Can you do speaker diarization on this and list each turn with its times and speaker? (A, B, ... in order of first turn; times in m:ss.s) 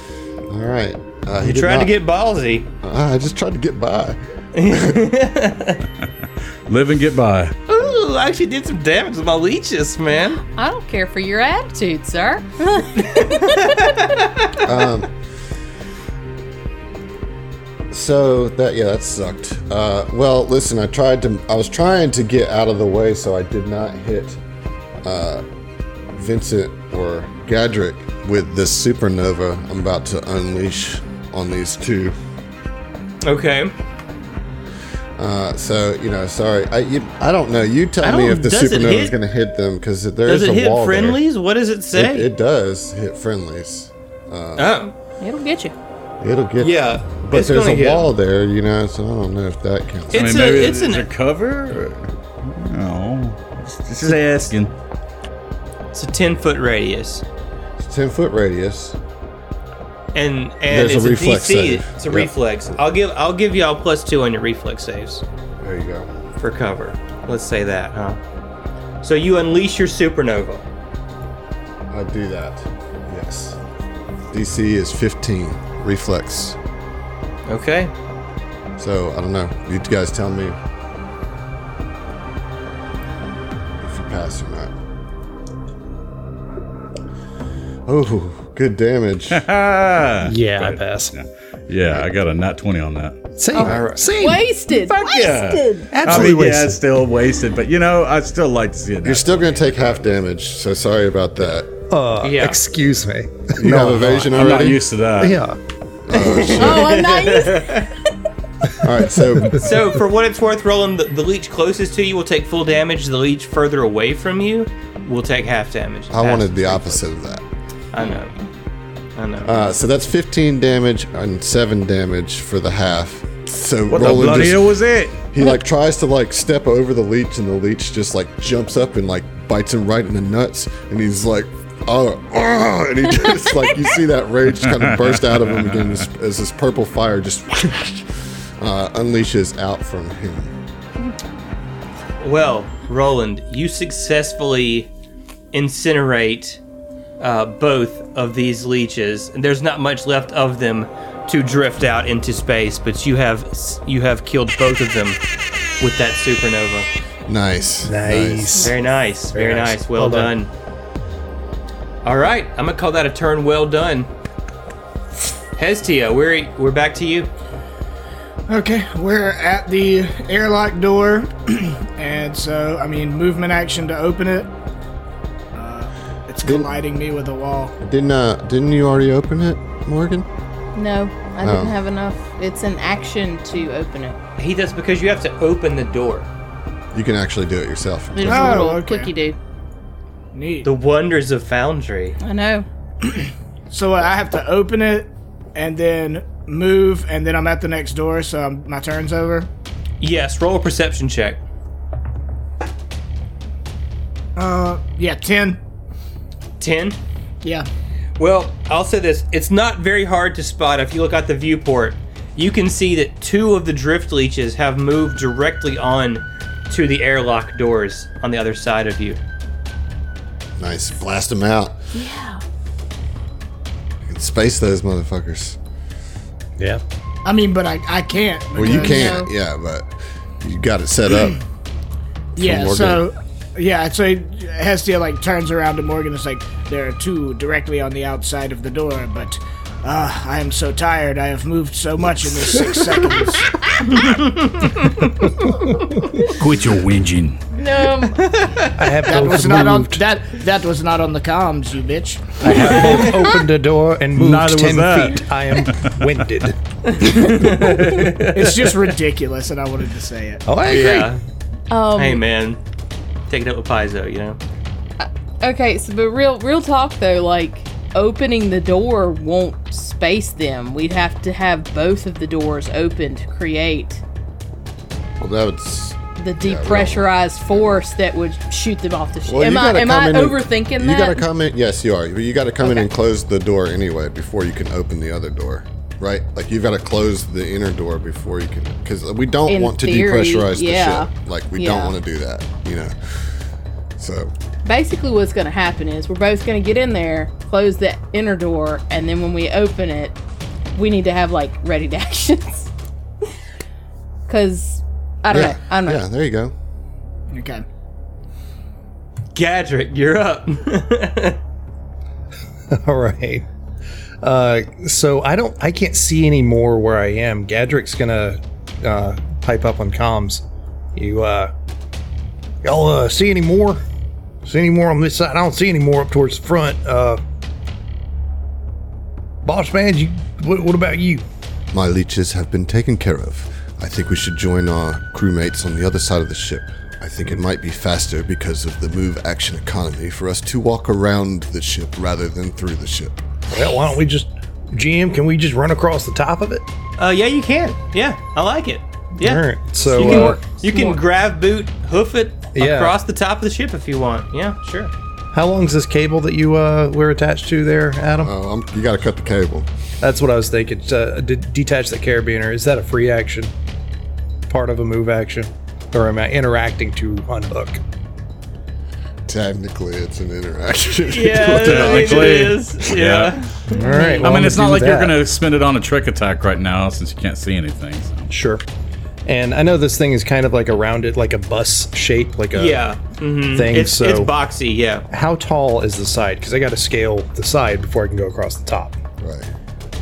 0:00.5-0:01.9 A
0:01.4-0:02.7 B
0:02.8-0:05.0 A
0:04.5-0:05.8 B
0:06.7-0:07.6 C
0:07.7-0:10.4 B
0:10.4-0:14.0 D
0:13.5-0:13.7 B
0:14.6-0:15.1 A
0:17.9-0:24.4 A
0:25.0-0:25.4 A
0:26.1-0:32.2 A
0:33.2-0:33.7 B
0:35.2-0:41.2 A
0:38.0-0:39.2 B
0:40.2-0:42.3 B
0:41.9-0:44.8 A
0:44.6-0:44.9 B
0:45.2-0:45.7 D
0:46.2-0:50.5 A
0:46.6-0:48.1 B
0:50.1-0:51.1 B
0:50.2-0:54.7 C
0:55.9-0:57.2 B
0:57.8-0:59.0 A
1:00.1-1:05.2 B
1:00.7-1:02.3 A
1:05.6-1:06.1 A
1:06.4-1:08.2 B
1:09.0-1:10.6 B
1:11.9-1:13.6 A
1:14.3-1:16.6 A
1:17.5-1:17.9 B
1:18.8-1:20.6 A
1:23.8-1:24.7 A
1:27.9-1:29.4 A
1:29.3-1:33.2 C
1:30.2-1:31.2 E
1:33.4-1:34.5 E
1:33.5-1:35.9 D
1:33.6-1:34.0 B
1:34.8-1:39.9 C
1:35.9-1:36.8 E
1:39.0-1:41.7 A
1:41.9-1:44.5 E
1:42.2-1:42.6 B
1:43.6-1:44.8 A
1:44.3-1:45.4 C
1:45.2-1:45.6 E
1:46.1-1:47.0 A
1:46.1-1:47.9 B
1:46.6-1:47.9 D
1:48.8-1:49.8 A
1:49.5-1:57.1 B
1:56.1-1:57.4 A
1:57.9-1:58.4 B
1:59.2-1:59.7 B
1:59.4-2:04.8 A
2:03.9-2:05.2 C
2:05.3-2:20.5 A
2:14.7-2:15.8 C
2:22.2-2:24.9 B
2:25.5-2:26.6 B
2:27.2-2:35.2 B
2:35.8-2:36.9 B
2:37.3-2:38.7 A
2:37.8-2:38.8 E
2:38.6-2:40.5 B
2:39.3-2:40.3 E
2:42.0-2:44.1 B
2:45.6-2:47.3 B
2:48.5-2:54.5 F
2:55.5-2:57.8 F
2:56.4-2:56.7 A
2:57.8-3:00.3 A
3:00.8-3:04.2 D
3:01.4-3:01.8 A
3:04.4-3:06.3 B
3:06.9-3:08.8 A
3:08.2-3:09.4 D
3:08.2-3:09.1 F
3:10.3-3:10.7 F
3:10.6-3:12.2 B
3:12.2-3:12.7 D
3:13.0-3:19.5 F
3:20.0-3:21.4 B
3:24.4-3:25.6 F
3:26.6-3:27.0 B
3:28.2-3:39.2 B
3:40.6-3:41.8 A
3:41.9-3:42.4 D
3:44.1-3:45.6 A
3:47.2-3:49.0 F
3:48.6-3:51.4 A
3:48.6-3:49.3 D
3:52.4-3:53.0 A
3:52.4-4:03.6 F
4:03.9-4:05.2 B
4:06.2-4:07.4 C
4:07.5-4:08.3 D
4:08.0-4:08.8 B
4:08.8-4:10.0 E
4:09.1-4:12.4 F
4:12.4-4:18.1 E
4:12.6-4:13.2 B
4:14.2-4:16.0 C
4:16.9-4:18.6 B
4:18.3-4:20.4 F
4:20.5-4:21.2 E
4:20.7-4:21.2 B
4:21.7-4:22.2 D
4:22.0-4:22.6 B
4:23.3-4:24.4 B
4:25.0-4:34.0 D
4:35.2-4:37.8 A
4:36.2-4:41.2 D
4:39.2-4:53.4 A
4:42.6-4:42.9 D
4:49.5-4:52.0 D
4:54.0-4:54.3 A
4:54.6-5:00.2 D
5:00.7-5:02.7 D
5:04.3-5:06.0 D
5:05.3-5:06.5 A
5:07.3-5:07.6 F
5:09.4-5:11.4 B
5:12.7-5:13.5 E
5:14.2-5:20.4 E
5:21.0-5:21.5 E
5:22.6-5:23.8 E
5:24.4-5:27.2 E
5:29.4-5:31.2 E
5:31.7-5:43.2 A
5:43.5-5:46.7 E
5:47.0-5:54.9 B
5:49.2-5:50.4 E
5:50.7-5:51.0 D
5:52.6-5:53.0 E
5:55.3-5:58.3 E
5:58.2-5:59.7 A
6:00.0-6:03.5 E
6:04.5-6:07.8 E
6:09.3-6:12.6 A
6:11.1-6:14.2 B
6:11.6-6:13.4 C
6:13.7-6:15.2 E
6:14.2-6:18.3 C
6:18.3-6:18.6 E
6:19.3-6:22.9 E
6:22.5-6:25.0 B
6:23.5-6:24.3 E
6:25.1-6:29.0 E
6:29.2-6:29.5 A